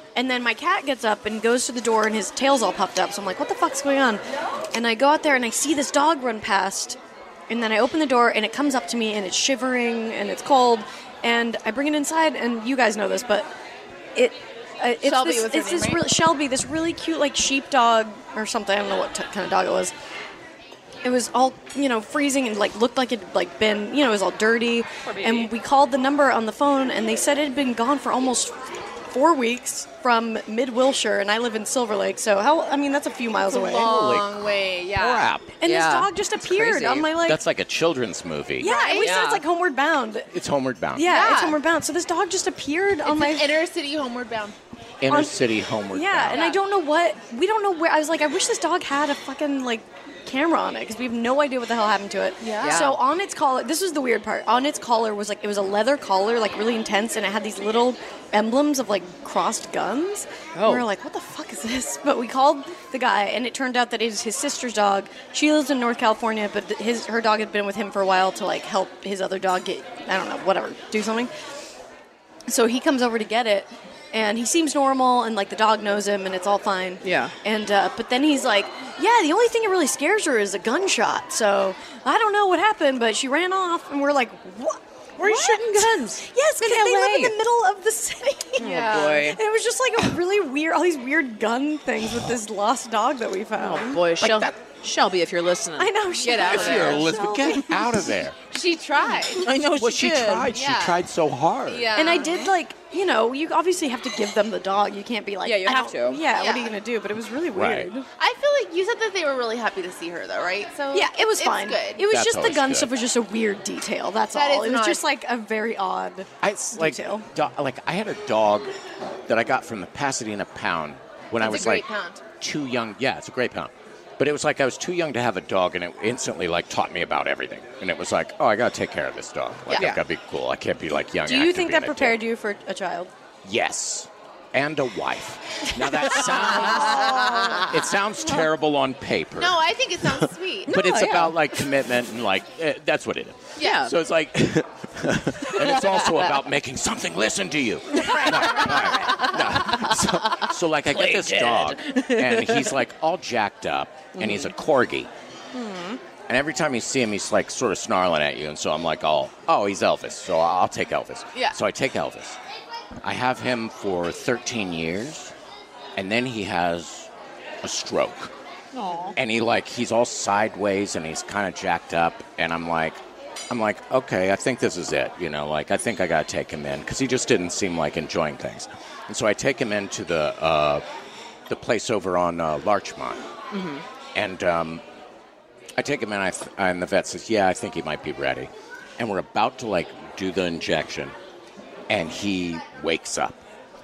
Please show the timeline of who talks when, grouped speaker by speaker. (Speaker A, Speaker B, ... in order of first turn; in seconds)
Speaker A: 0.1-7.0, 7.5-13.5, 14.1-19.9, 21.0-33.9, 35.6-37.4, 38.6-40.3, 40.9-43.6, 45.1-45.4, 45.9-71.3, 72.5-94.0, 95.8-98.1, 101.9-108.1, 110.9-117.2, 131.2-133.1, 135.8-137.7, 147.9-149.3
Speaker B: 15.0-16.1, 33.5-35.3, 38.6-39.4, 41.1-41.6, 43.0-44.5, 46.3-46.6, 52.4-53.0, 88.6-89.3, 96.4-97.0, 98.5-99.5, 100.5-101.0, 101.7-102.5, 106.3-106.8, 108.2-112.0, 114.3-115.0, 121.4-122.2, 139.4-140.8, 143.6-143.8
Speaker C: 25.1-25.5, 35.6-37.1, 38.7-39.4, 52.6-53.0, 60.5-60.9, 77.0-77.3, 85.2-87.4, 88.6-89.4, 93.6-97.0, 99.3-100.5, 105.4-106.2, 129.8-130.0, 136.2-137.7, 140.7-141.4, 143.6-143.9, 145.5-146.3, 147.9-150.1, 150.9-152.8, 154.2-154.5, 155.5-156.0, 168.7-169.2, 183.5-183.8
Speaker D: 33.7-34.3, 35.0-35.5, 37.2-38.7, 40.3-41.1, 45.0-46.4, 94.2-94.5, 96.4-98.4, 99.6-101.9, 107.5-107.9, 112.0-112.9, 116.4-118.7, 119.3-121.8, 122.4-132.2, 133.4-155.1, 156.3-162.4, 163.0-165.3, 165.9-167.1, 167.6-168.3, 169.1-180.8, 181.5-183.2, 184.1-184.8, 185.8-191.1, 191.9-193.4